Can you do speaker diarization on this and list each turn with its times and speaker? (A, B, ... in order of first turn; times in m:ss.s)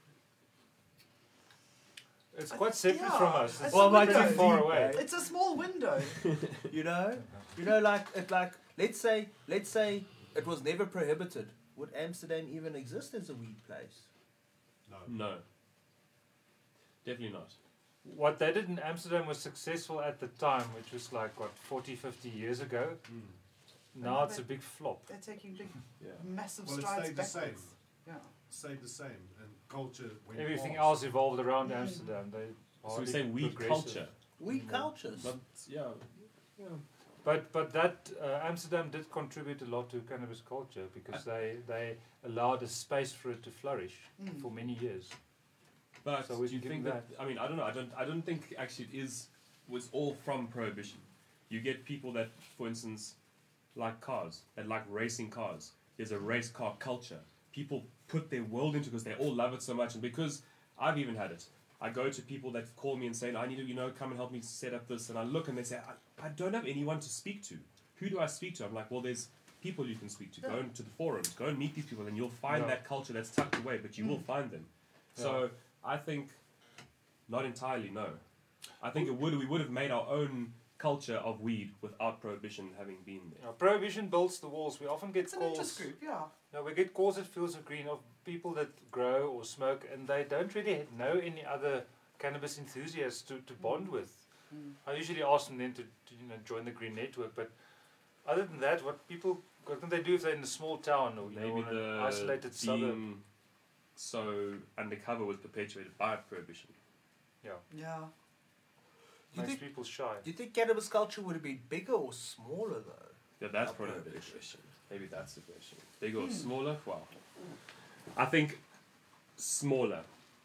0:02.3-0:05.0 A
0:02.5-0:06.2 B
0:03.7-0:05.0 C
0:06.7-0:14.1 C
0:14.9-0:15.2 D
0:15.0-0:15.4 E
0:17.0-0:17.6 E
0:18.0-0:23.0 A
0:23.1-0:23.4 D
0:23.9-0:25.1 A
0:24.0-0:28.3 B
0:26.6-0:27.7 D
0:28.5-0:31.1 D
0:30.3-0:34.9 A
0:31.6-0:32.0 B
0:32.8-0:34.1 E
0:34.4-0:35.3 C
0:35.2-0:36.8 E
0:37.2-0:45.1 A
0:44.2-0:44.5 B
0:46.0-0:53.2 E
0:46.2-0:47.1 A
0:53.7-1:16.4 E
1:12.5-1:12.8 A
1:14.0-1:14.2 B
1:15.1-1:15.4 A
1:17.3-1:18.2 E
1:18.8-1:23.4 E
1:23.4-1:25.9 A
1:25.2-1:26.3 B
1:26.5-1:34.2 A
1:33.6-1:33.9 B
1:34.5-1:34.8 B
1:34.8-1:37.5 A
1:38.2-1:43.0 A
1:41.3-1:43.2 E
1:44.0-1:46.7 E
1:47.7-1:48.1 B
1:49.3-1:49.7 C
1:49.3-1:50.3 A
1:50.2-1:54.4 C
1:53.4-1:57.1 E
1:56.2-1:56.5 B
1:58.1-1:58.6 E
1:59.4-2:00.1 E